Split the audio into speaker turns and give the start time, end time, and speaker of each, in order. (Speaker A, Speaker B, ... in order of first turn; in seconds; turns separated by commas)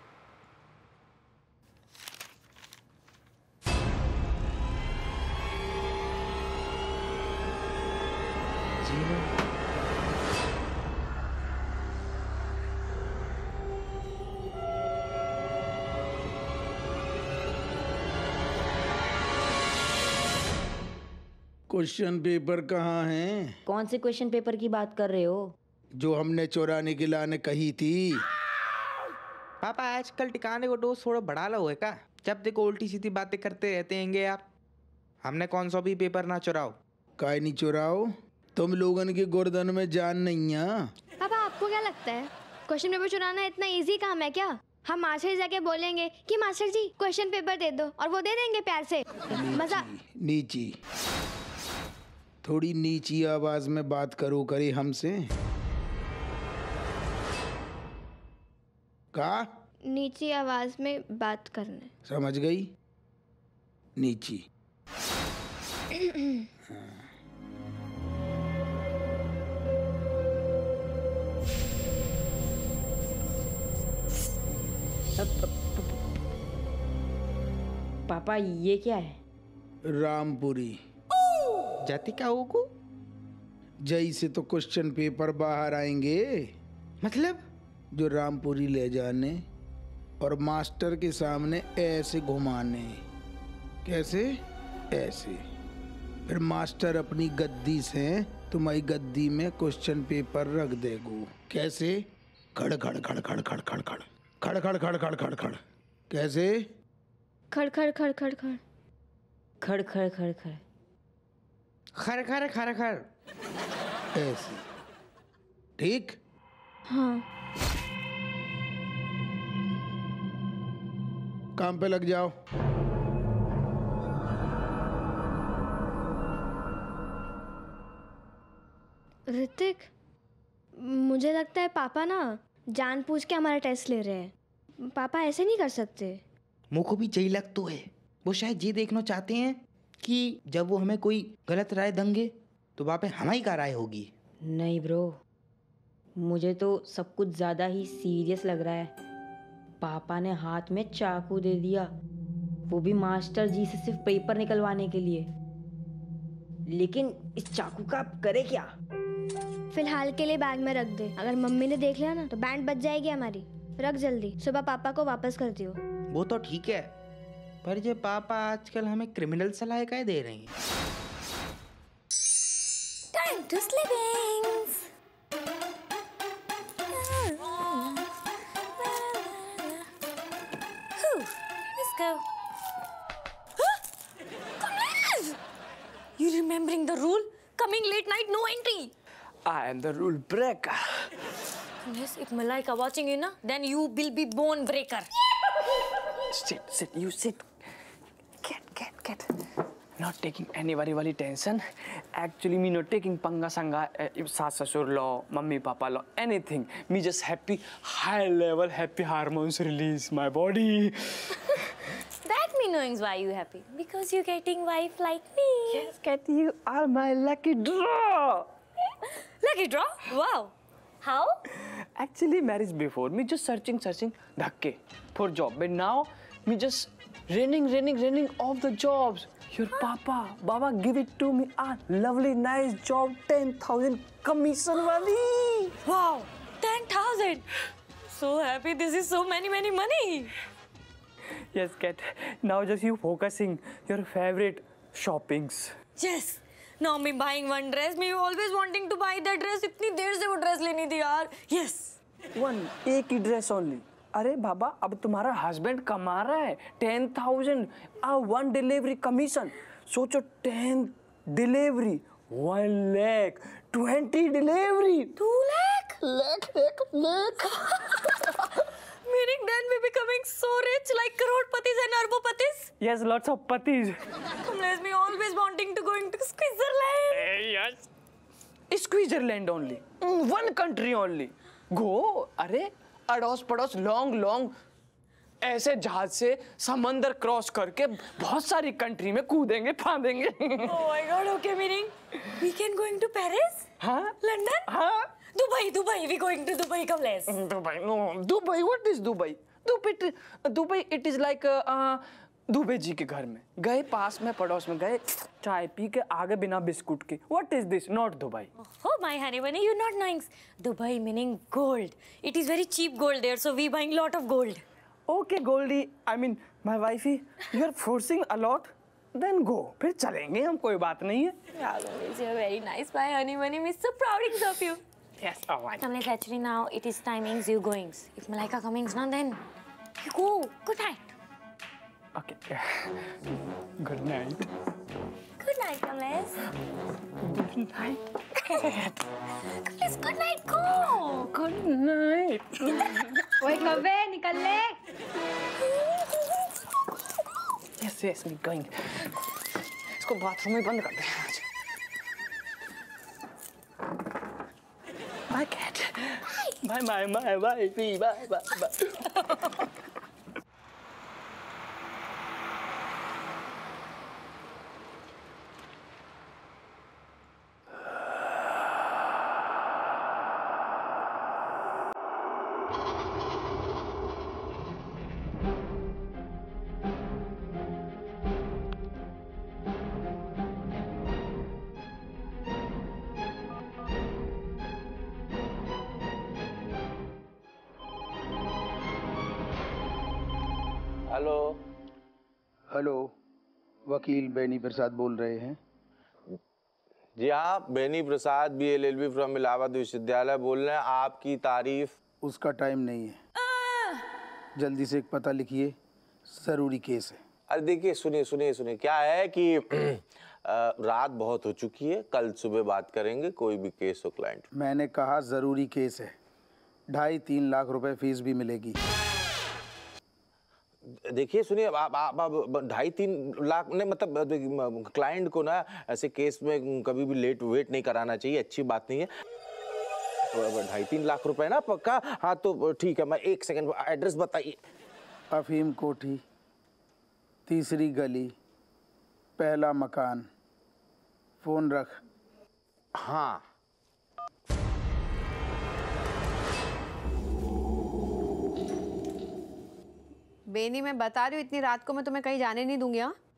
Speaker A: 8.8-9.2, Speaker B: 21.7-23.6, Speaker C: 23.6-25.5, Speaker B: 25.9-28.2, Speaker A: 29.6-34.4, Speaker A: 35.2-36.7, Speaker B: 37.2-40.9, Speaker D: 41.2-49.8, Speaker B: 49.3-50.7, Speaker B: 52.4-55.3, Speaker B: 59.1-59.4, Speaker D: 59.9-61.9, Speaker B: 62.0-62.7, Speaker B: 64.0-64.4, Speaker B: 66.7-67.0, Speaker C: 75.2-75.8, Speaker C: 78.1-79.2, Speaker B: 79.9-80.8, Speaker A: 81.8-82.6, Speaker B: 83.8-86.5, Speaker A: 87.0-87.4, Speaker B: 87.9-89.4, Speaker B: 90.2-93.0, Speaker B: 93.8-94.3, Speaker B: 94.9-95.4, Speaker B: 96.3-102.0, Speaker B: 102.5-105.6, Speaker B: 106.1-106.5, Speaker D: 107.5-108.6, Speaker C: 109.6-110.6, Speaker A: 112.0-113.0, Speaker B: 114.1-114.6, Speaker B: 115.8-116.2, Speaker D: 116.9-117.2, Speaker B: 121.5-122.3, Speaker D: 129.3-129.9, Speaker D: 130.8-134.3, Speaker D: 134.9-136.2, Speaker A: 136.7-144.1, Speaker C: 144.4-145.2, Speaker C: 146.2-148.9, Speaker C: 149.8-151.9, Speaker C: 152.7-155.3, Speaker C: 156.7-158.7, Speaker D: 159.7-165.8, Speaker A: 166.1-166.8, Speaker A: 167.6-170.5, Speaker E: 173.1-174.8, Speaker E: 176.9-178.0, Speaker E: 178.8-179.9, Speaker E: 181.0-182.2, Speaker E: 184.6-185.4, Speaker E: 186.2-188.9, Speaker F: 189.4-191.1, Speaker E: 191.8-195.1, Speaker F: 196.3-197.4, Speaker F: 198.4-199.3, Speaker F: 200.0-211.3, Speaker E: 212.2-215.9, Speaker F: 215.7-218.5, Speaker E: 219.4-221.4, Speaker F: 221.6-235.8, Speaker E: 235.8-237.4, Speaker E: 238.1-240.3, Speaker F: 241.5-245.8, Speaker E: 245.9-251.9, Speaker F: 252.3-265.2, Speaker E: 265.2-266.0, Speaker E: 269.1-272.7, Speaker F: 272.8-274.0, Speaker E: 274.4-277.3, Speaker F: 277.1-277.8, Speaker F: 278.7-284.5, Speaker F: 285.4-290.9, Speaker E: 290.6-293.6, Speaker F: 293.8-295.2, Speaker E: 294.2-294.7, Speaker E: 295.3-297.3, Speaker F: 297.3-308.5, Speaker E: 308.6-314.6, Speaker F: 315.1-321.4, Speaker E: 321.5-324.8, Speaker F: 325.2-325.9, Speaker E: 325.8-329.4, Speaker E: 330.0-331.1, Speaker F: 332.1-333.1, Speaker F: 333.8-334.5, Speaker E: 335.4-336.4, Speaker F: 337.2-339.0, Speaker E: 339.6-341.3, Speaker F: 341.2-343.9, Speaker F: 347.8-349.1, Speaker F: 349.9-351.5, Speaker F: 355.3-359.4, Speaker G: 391.1-391.5, Speaker B: 392.7-393.1, Speaker B: 393.9-395.6, Speaker G: 397.2-401.9, Speaker B: 402.2-403.2, Speaker B: 404.6-405.7, Speaker B: 406.3-407.2, Speaker G: 407.5-414.4, Speaker B: 414.5-416.1, Speaker B: 416.9-418.8, Speaker G: 421.1-429.1, Speaker G: 430.3-434.6, Speaker B: 435.3-436.2, Speaker B: 437.5-438.3, Speaker B: 439.4-440.2, Speaker B: 441.4-442.0, Speaker G: 443.0-443.4, Speaker H: 450.5-453.1